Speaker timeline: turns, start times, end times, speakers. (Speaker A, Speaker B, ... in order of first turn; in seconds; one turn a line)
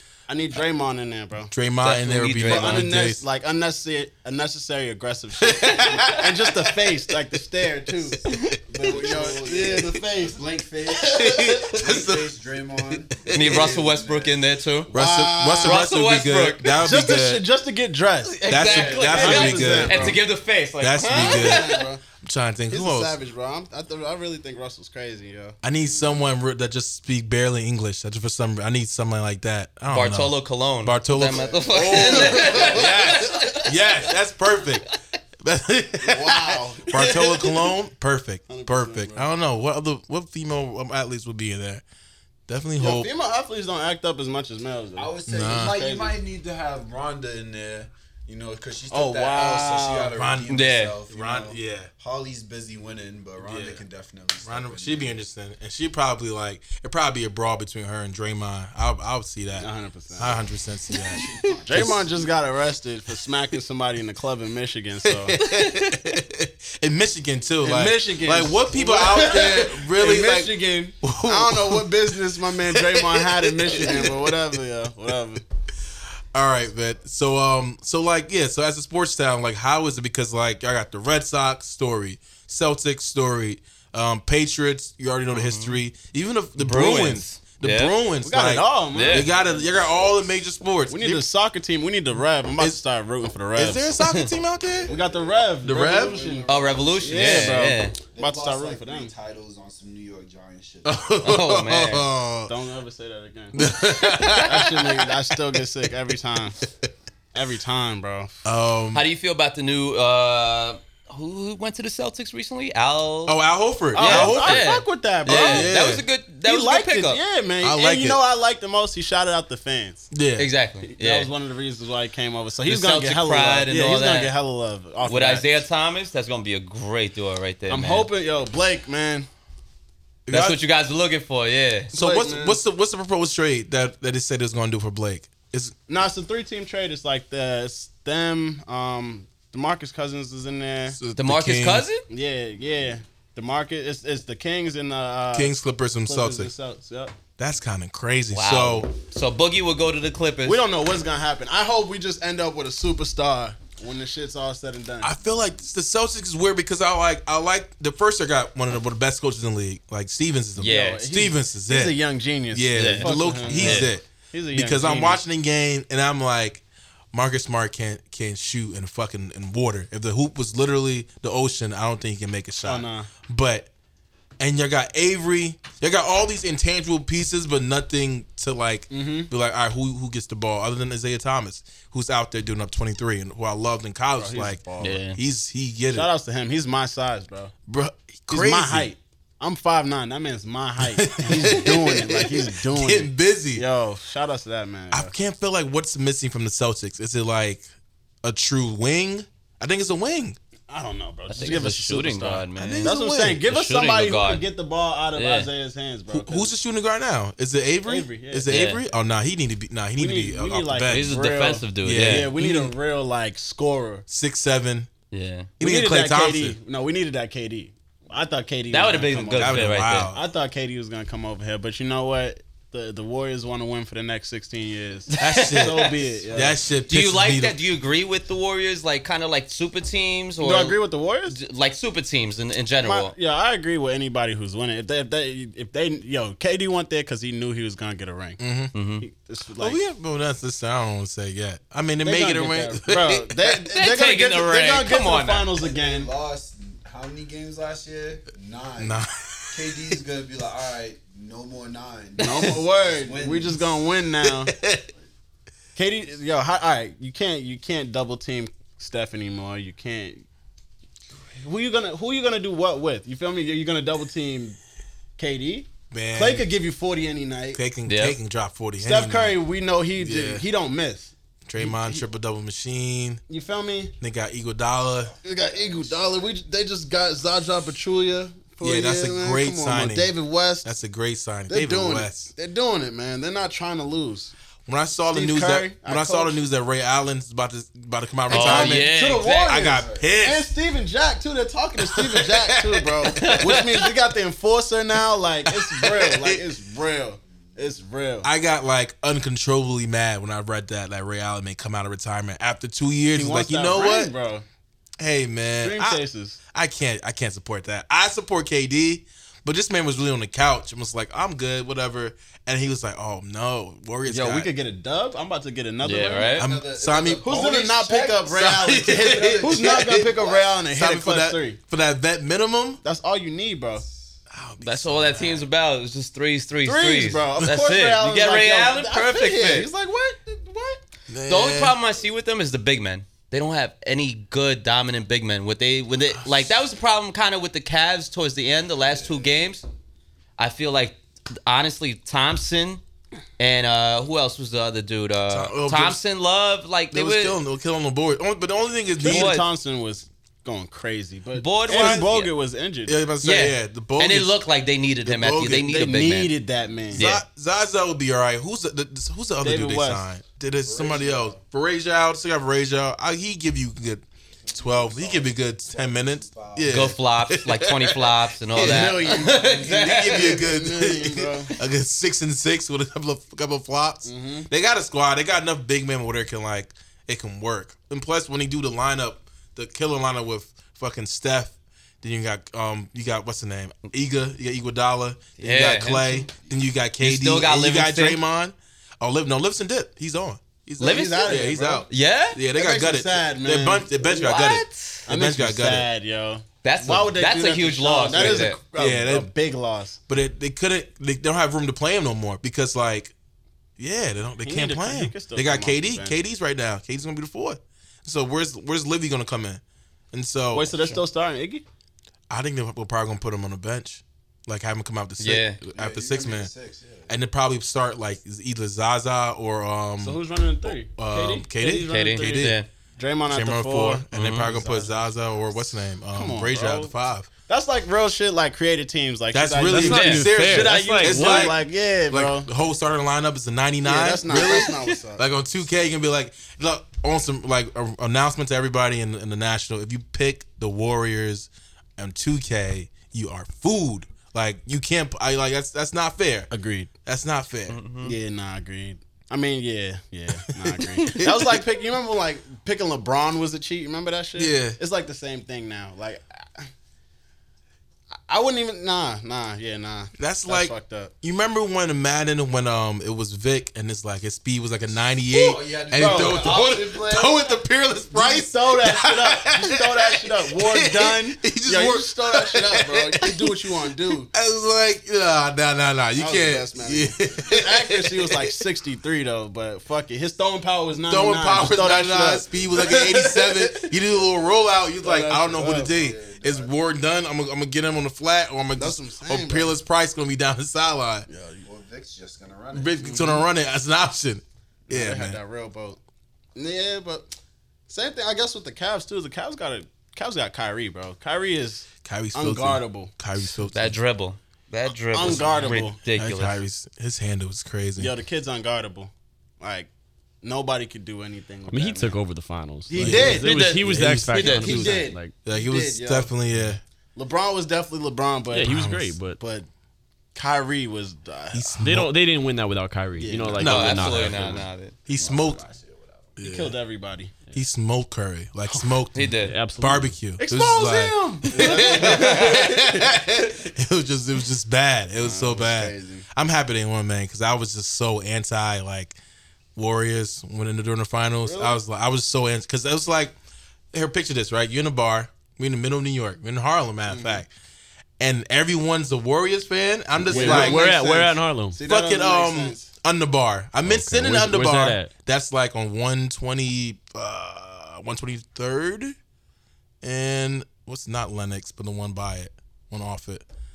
Speaker A: 0.3-1.5
Speaker B: 1.5-3.2
Speaker C: 1.8-2.9
Speaker A: 2.4-8.3
Speaker B: 5.4-6.9
Speaker B: 8.3-8.6
Speaker D: 8.7-14.4
Speaker A: 8.8-10.4
Speaker B: 11.1-12.3
Speaker B: 13.1-13.7
Speaker C: 13.3-14.9
Speaker B: 14.9-17.4
Speaker A: 14.9-15.9
Speaker C: 15.6-16.7
Speaker A: 16.7-20.2
Speaker C: 18.3-21.9
Speaker B: 18.4-20.2
Speaker B: 20.8-23.1
Speaker A: 21.1-22.1
Speaker A: 22.7-26.2
Speaker B: 25.6-34.9
Speaker C: 29.9-34.0
Speaker A: 31.4-32.9
Speaker B: 35.4-41.8
Speaker A: 36.0-37.2
Speaker C: 36.9-37.7
Speaker A: 38.5-39.3
Speaker B: 42.5-43.1
Speaker A: 42.8-46.2
Speaker D: 45.0-55.2
Speaker B: 45.3-45.8
Speaker A: 48.9-50.1
Speaker B: 50.1-51.9
Speaker C: 50.5-51.0
Speaker B: 53.4-53.8
Speaker B: 54.4-62.0
Speaker A: 59.6-60.4
Speaker D: 60.9-62.3
Speaker A: 61.7-65.4
Speaker B: 65.0-74.4
Speaker C: 65.5-66.0
Speaker A: 67.6-75.4
Speaker B: 76.3-91.2
Speaker C: 85.3-85.8
Speaker C: 86.6-87.9
Speaker A: 88.2-89.5
Speaker C: 88.9-89.3
Speaker D: 89.4-90.2
Speaker A: 90.9-94.0
Speaker B: 93.5-94.9
Speaker C: 94.0-94.3
Speaker D: 94.7-101.0
Speaker A: 94.9-99.1
Speaker B: 95.6-96.3
Speaker C: 96.5-98.0
Speaker B: 100.8-102.5
Speaker C: 101.2-102.1
Speaker A: 102.5-103.6
Speaker B: 103.5-105.2
Speaker A: 104.4-106.6
Speaker A: 107.3-108.4
Speaker B: 108.4-109.1
Speaker C: 108.9-113.4
Speaker B: 113.3-114.7
Speaker A: 113.9-115.8
Speaker C: 113.9-117.2
Speaker B: 115.3-116.1
Speaker A: 116.4-120.1
Speaker B: 117.6-118.2
Speaker B: 120.1-120.5
Speaker C: 120.4-121.3
Speaker A: 120.8-125.5
Speaker C: 122.7-124.3
Speaker C: 125.0-128.1
Speaker A: 127.7-129.3
Speaker B: 130.3-130.6
Speaker C: 130.3-131.9
Speaker B: 131.9-135.8
Speaker A: 131.9-132.6
Speaker A: 135.9-141.0
Speaker B: 141.0-141.9
Speaker C: 141.2-142.0
Speaker A: 142.1-147.2
Speaker B: 145.3-146.5
Speaker B: 147.4-148.9
Speaker C: 148.3-150.6
Speaker A: 150.4-155.2
Speaker B: 155.0-162.0
Speaker C: 160.6-161.0
Speaker A: 160.7-165.2
Speaker B: 162.5-173.7
Speaker C: 162.7-163.9
Speaker A: 172.6-173.1
Speaker B: 174.4-186.1
Speaker A: 178.9-179.3
Speaker A: 184.2-185.0
Speaker C: 184.8-185.2
Speaker A: 185.9-187.5
Speaker B: 187.7-188.9
Speaker A: 188.3-195.1
Speaker B: 190.8-193.6
Speaker B: 194.9-197.7
Speaker B: 198.2-200.4
Speaker A: 200.7-206.5
Speaker C: 201.3-204.4
Speaker B: 202.6-203.4
Speaker C: 205.2-205.5
Speaker B: 206.1-211.2
Speaker A: 207.9-208.5
Speaker C: 208.5-208.8
Speaker A: 210.0-214.1
Speaker C: 210.9-212.3
Speaker B: 211.8-212.7
Speaker B: 214.1-214.9
Speaker C: 215.1-215.5
Speaker B: 215.6-216.6
Speaker A: 215.6-226.6
Speaker C: 218.7-220.1
Speaker B: 219.1-220.2
Speaker C: 225.1-225.9
Speaker B: 225.2-227.6
Speaker C: 226.8-230.8
Speaker A: 230.4-231.4
Speaker C: 231.3-233.1
Speaker A: 232.8-238.4
Speaker B: 238.4-238.7
Speaker C: 238.7-239.1
Speaker A: 239.0-239.8
Speaker B: 239.6-243.4
Speaker A: 242.0-246.1
Speaker C: 243.7-245.5
Speaker D: 245.6-253.8
Speaker B: 248.8-249.8
Speaker A: 252.2-254.5
Speaker B: 254.2-254.9
Speaker A: 255.8-260.2
Speaker A: 261.3-264.6
Speaker A: 265.2-267.6
Speaker B: 265.9-266.5
Speaker B: 267.5-269.4
Speaker C: 267.9-268.2
Speaker A: 268.8-272.1
Speaker B: 270.0-270.4
Speaker B: 271.4-273.2
Speaker A: 273.3-274.0
Speaker B: 274.0-275.2
Speaker A: 275.2-280.7
Speaker D: 275.5-276.2
Speaker B: 278.6-280.1
Speaker B: 280.6-282.3
Speaker A: 281.5-284.4
Speaker B: 284.7-290.5
Speaker A: 285.1-286.4
Speaker C: 288.3-289.8
Speaker A: 288.3-298.3
Speaker D: 289.7-290.1
Speaker B: 291.9-293.9
Speaker C: 293.1-293.6
Speaker B: 295.5-296.4
Speaker B: 298.2-304.1
Speaker A: 303.1-304.4
Speaker B: 305.0-314.5
Speaker A: 305.6-306.4
Speaker A: 314.1-316.4
Speaker C: 315.8-316.5
Speaker B: 316.4-317.3
Speaker D: 316.4-320.6
Speaker A: 317.2-321.6
Speaker B: 318.3-320.1
Speaker B: 320.7-322.8
Speaker A: 322.8-323.9
Speaker B: 324.3-325.5
Speaker C: 324.6-329.7
Speaker A: 326.6-330.8
Speaker B: 331.1-331.8
Speaker C: 331.3-339.6
Speaker C: 340.4-342.8
Speaker C: 343.4-347.4
Speaker B: 345.3-346.0
Speaker B: 346.9-349.4
Speaker A: 349.0-353.0
Speaker C: 349.0-349.5
Speaker C: 351.3-352.3
Speaker B: 352.9-354.4
Speaker C: 353.2-356.3
Speaker B: 355.1-355.9
Speaker A: 355.7-357.2
Speaker C: 356.9-357.2
Speaker B: 356.9-395.9
Speaker A: 359.4-360.1
Speaker D: 360.6-361.4
Speaker D: 364.4-367.0
Speaker C: 366.7-370.4
Speaker A: 368.6-369.6
Speaker A: 370.2-371.6
Speaker A: 374.0-374.5
Speaker C: 385.4-386.3
Speaker C: 387.0-388.2
Speaker C: 390.8-392.4
Speaker A: 390.8-391.9
Speaker A: 392.6-394.3
Speaker C: 394.2-395.1
Speaker A: 395.1-400.0
Speaker C: 396.6-398.6
Speaker B: 398.1-399.3
Speaker B: 400.1-403.1
Speaker B: 403.8-409.6
Speaker A: 404.4-406.2
Speaker B: 410.1-410.8
Speaker A: 410.5-411.6
Speaker C: 410.7-411.0
Speaker B: 412.3-416.5
Speaker C: 415.2-415.6
Speaker D: 415.7-417.1
Speaker B: 417.1-422.6
Speaker A: 420.0-422.4
Speaker C: 421.8-422.7
Speaker A: 423.0-425.1
Speaker B: 423.3-427.3
Speaker A: 426.1-426.9
Speaker A: 427.5-432.5
Speaker B: 429.3-446.5
Speaker E: 429.6-431.6
Speaker C: 429.8-430.3
Speaker A: 433.8-435.2
Speaker A: 446.5-446.9
Speaker B: 447.0-447.9
Speaker C: 447.7-448.2
Speaker A: 448.0-456.7
Speaker B: 450.5-451.6
Speaker B: 454.4-454.8
Speaker A: 458.3-461.1
Speaker B: 460.2-473.8
Speaker D: 465.3-467.6
Speaker A: 466.0-466.6
Speaker A: 468.1-474.3
Speaker B: 474.3-478.6
Speaker A: 476.2-483.9
Speaker B: 481.1-491.3
Speaker A: 485.0-485.9
Speaker D: 485.7-486.7
Speaker A: 488.7-489.8
Speaker A: 491.3-491.6
Speaker D: 491.6-493.4
Speaker B: 492.7-495.4
Speaker A: 493.1-493.5
Speaker A: 494.9-496.0
Speaker A: 496.6-497.3
Speaker A: 497.9-503.1
Speaker B: 502.0-504.0
Speaker C: 503.6-506.6
Speaker A: 505.1-506.0
Speaker B: 506.1-508.1
Speaker A: 508.0-509.9
Speaker A: 510.4-512.2
Speaker E: 511.7-515.4
Speaker A: 512.9-513.7
Speaker B: 513.0-516.8
Speaker C: 513.4-514.9
Speaker A: 514.5-516.3
Speaker A: 517.2-519.7
Speaker E: 518.5-519.4
Speaker B: 518.6-519.2
Speaker A: 520.4-521.8
Speaker B: 521.5-522.1
Speaker E: 521.8-524.7
Speaker A: 523.2-524.3
Speaker B: 523.6-524.4
Speaker C: 523.6-525.0
Speaker B: 525.1-525.6
Speaker D: 525.1-526.4
Speaker B: 526.4-526.7
Speaker A: 526.4-527.5
Speaker B: 527.5-539.2
Speaker A: 528.7-528.9
Speaker C: 529.1-529.5
Speaker E: 529.4-530.2
Speaker A: 530.4-533.0
Speaker D: 531.6-532.5
Speaker C: 531.9-532.6
Speaker A: 535.2-536.3
Speaker B: 539.8-543.4
Speaker A: 541.4-541.8
Speaker B: 543.9-547.5
Speaker A: 547.1-547.4
Speaker B: 548.2-550.8
Speaker E: 550.2-551.8
Speaker A: 550.3-552.9
Speaker B: 551.9-559.1
Speaker E: 553.8-555.1
Speaker B: 560.0-563.5